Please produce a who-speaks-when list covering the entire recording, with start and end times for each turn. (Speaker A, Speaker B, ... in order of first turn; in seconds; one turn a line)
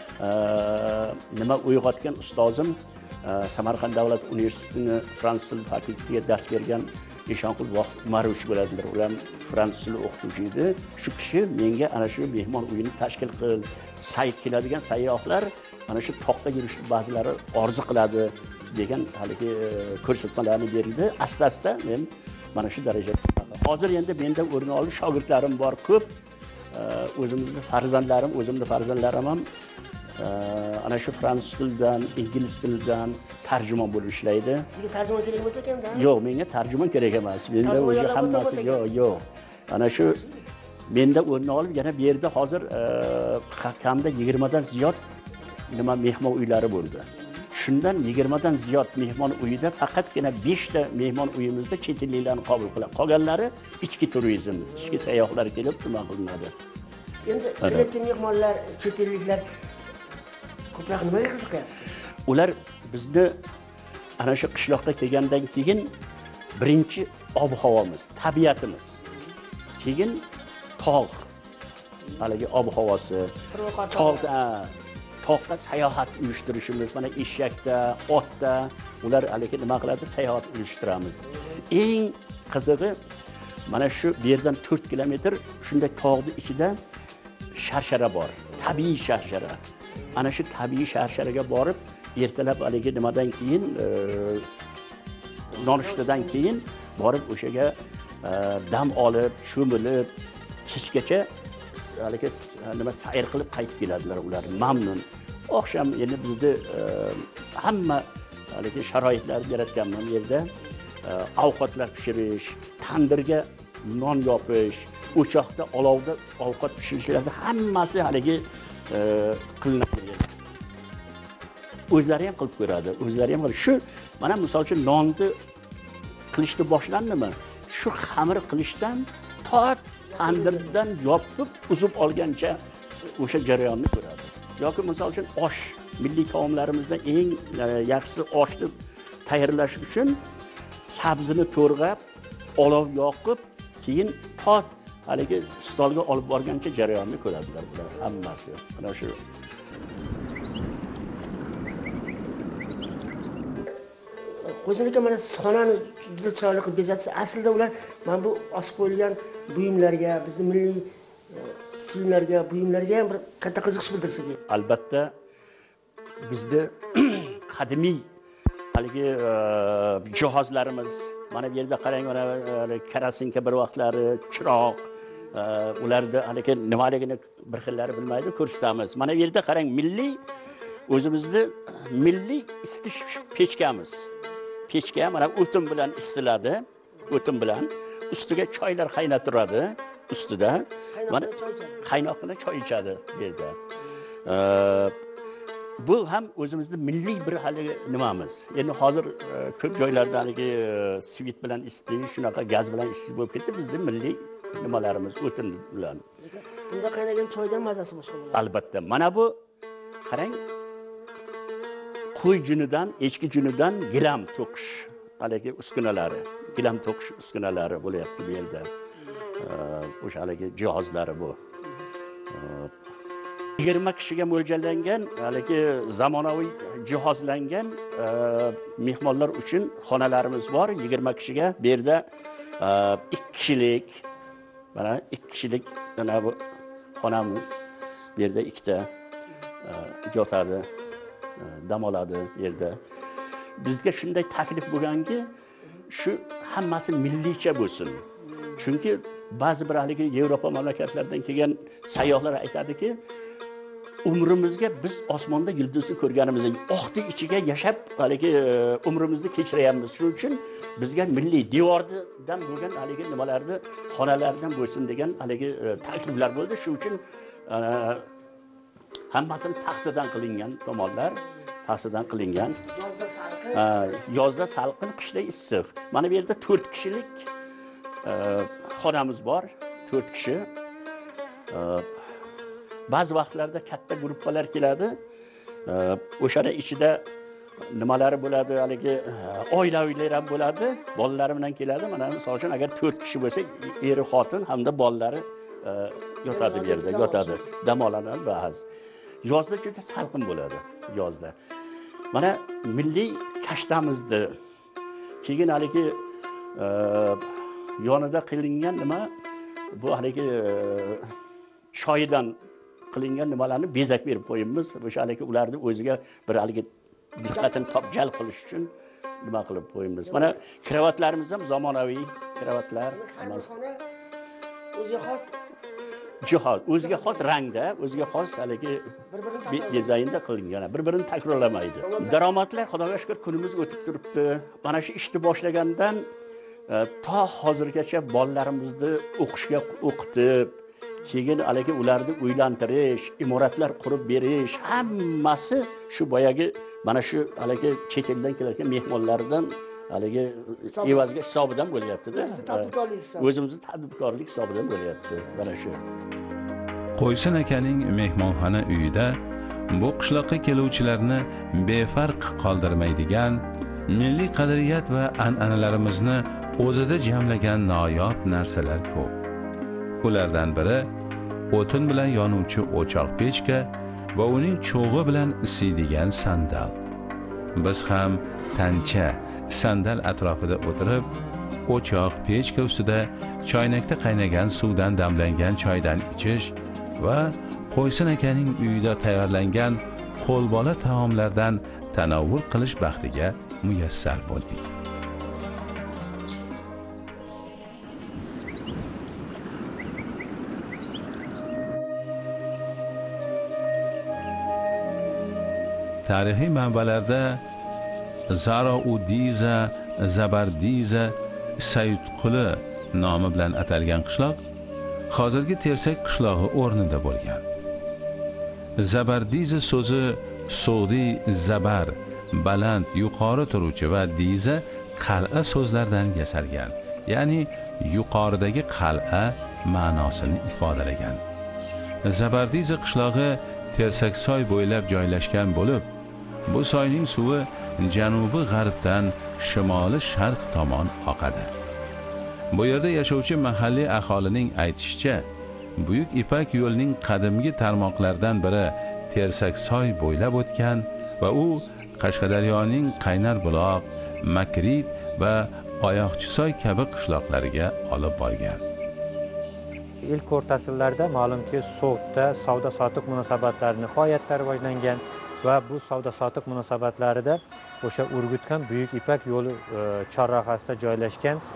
Speaker A: 0.2-26.1
Speaker A: 26.7-29.5
Speaker A: 30.2-34.7
Speaker B: 34.7-36.1
Speaker A: 35.9-40.2
Speaker B: 37.6-39.2
Speaker A: 40.9-45.1
Speaker A: 45.7-56.5
Speaker B: 57.3-59.5
Speaker A: 57.6-57.9
Speaker B: 60.7-61.9
Speaker A: 62.3-63.4
Speaker A: 64.2-65.9
Speaker A: 66.6-69.0
Speaker A: 69.8-70.2
Speaker A: 70.8-71.3
Speaker A: 72.2-73.4
Speaker B: 73.5-74.3
Speaker A: 73.9-83.0
Speaker A: 83.7-86.8
Speaker A: 87.5-89.6
Speaker A: 90.1-94.5
Speaker A: 95.5-100.1
Speaker B: 95.8-96.3
Speaker A: 100.7-101.3
Speaker A: 101.8-110.5
Speaker A: 111.0-120.3
Speaker A: 121.9-125.4
Speaker A: 126.3-138.7
Speaker B: 130.1-130.7
Speaker A: 139.3-140.2
Speaker A: 140.8-142.0
Speaker A: 142.6-149.2
Speaker B: 154.2-164.4
Speaker A: 164.5-165.1
Speaker A: 166.2-168.1
Speaker A: 168.7-180.2
Speaker A: 180.9-184.1
Speaker A: 184.7-191.3
Speaker B: 190.9-191.8
Speaker A: 191.8-193.6
Speaker A: 194.2-194.9
Speaker A: 195.8-206.0
Speaker B: 206.2-208.4
Speaker A: 208.3-209.4
Speaker A: 210.1-210.4
Speaker A: 212.2-218.7
Speaker A: 219.4-221.4
Speaker A: 222.3-222.7
Speaker A: 223.6-232.1
Speaker A: 232.6-234.0
Speaker A: 234.7-236.4
Speaker A: 237.0-237.6
Speaker A: 238.2-238.9
Speaker A: 239.6-240.7
Speaker A: 241.4-242.8
Speaker A: 243.6-245.3
Speaker A: 245.9-253.0
Speaker A: 254.1-268.1
Speaker A: 269.1-272.6
Speaker B: 272.7-274.0
Speaker A: 273.5-277.3
Speaker A: 278.0-280.5
Speaker A: 281.5-281.9
Speaker A: 282.9-285.0
Speaker A: 285.7-287.1
Speaker A: 287.7-298.6
Speaker B: 296.3-297.5
Speaker A: 299.2-301.4
Speaker A: 302.1-304.4
Speaker A: 305.2-306.0
Speaker A: 306.6-307.3
Speaker A: 307.8-309.1
Speaker A: 309.8-311.1
Speaker A: 311.7-312.4
Speaker A: 312.9-323.5
Speaker B: 320.1-320.4
Speaker B: 322.9-323.8
Speaker B: 324.7-325.3
Speaker A: 326.2-336.1
Speaker B: 326.8-327.3
Speaker B: 329.1-329.9
Speaker B: 331.8-332.2
Speaker A: 336.7-355.8
Speaker B: 350.7-351.1
Speaker B: 352.1-353.3
Speaker C: 357.0-359.2
Speaker C: 359.7-369.1
Speaker C: 370.0-370.9
Speaker C: 371.5-376.7
Speaker C: 377.6-381.1
Speaker C: 381.7-394.7
Speaker C: 406.1-407.4
Speaker C: 408.3-414.4
Speaker C: 415.1-417.4
Speaker C: 418.8-431.2
Speaker C: 432.1-435.9
Speaker C: 436.5-441.5
Speaker C: 442.5-445.2
Speaker C: 445.8-458.6
Speaker D: 460.0-471.4